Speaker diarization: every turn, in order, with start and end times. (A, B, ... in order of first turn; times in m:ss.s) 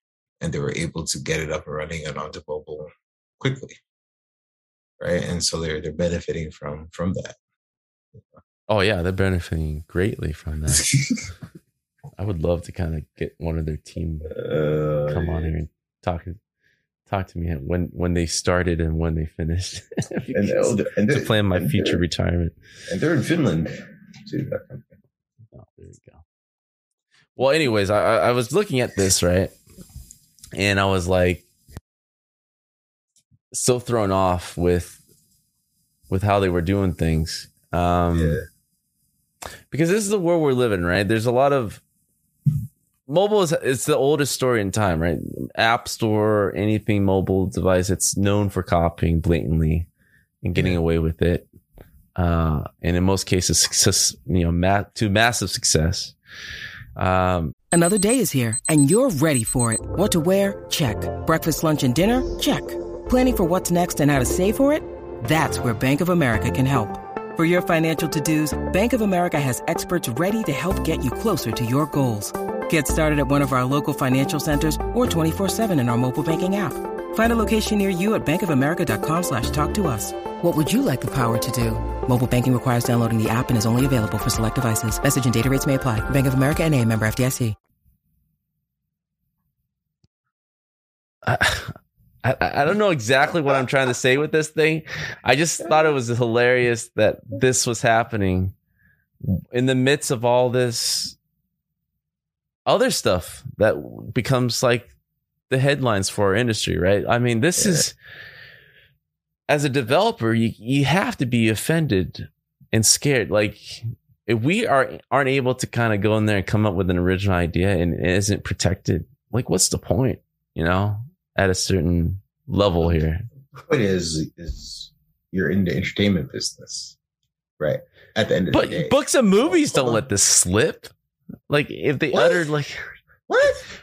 0:00.4-0:03.8 A
0:05.0-0:07.4 A
0:08.7-0:10.9 B
0:10.7-0:11.2 A
0:12.2-0:14.3 B
0:14.2-0:15.5 A
0:15.1-0:16.4 B
0:17.1-0:22.6 B
0:20.3-0:22.0 A
0:22.9-0:24.9 A
0:25.5-0:26.2 B
0:27.4-0:29.5 B
0:30.5-0:31.4 B
0:33.5-0:35.0 B
0:36.1-0:38.4 B
0:38.1-0:38.4 A
0:39.7-0:41.8 B
0:43.1-0:49.9 B
0:50.4-0:51.4 B
0:50.5-0:50.8 A
0:52.2-0:56.1 B
0:57.0-0:57.5 B
0:57.7-1:27.5 C
1:31.2-1:38.5 B
1:35.6-1:36.0 A
1:39.2-1:41.2 B
1:42.6-1:44.9 B
1:45.5-1:47.9 B
1:47.6-1:47.9 A
1:49.5-2:03.3 B
2:03.5-2:07.0 A
2:07.6-2:10.0 A
2:08.5-2:10.9 B
2:11.5-2:12.8 B
2:12.1-2:12.5 A
2:13.3-2:13.6 A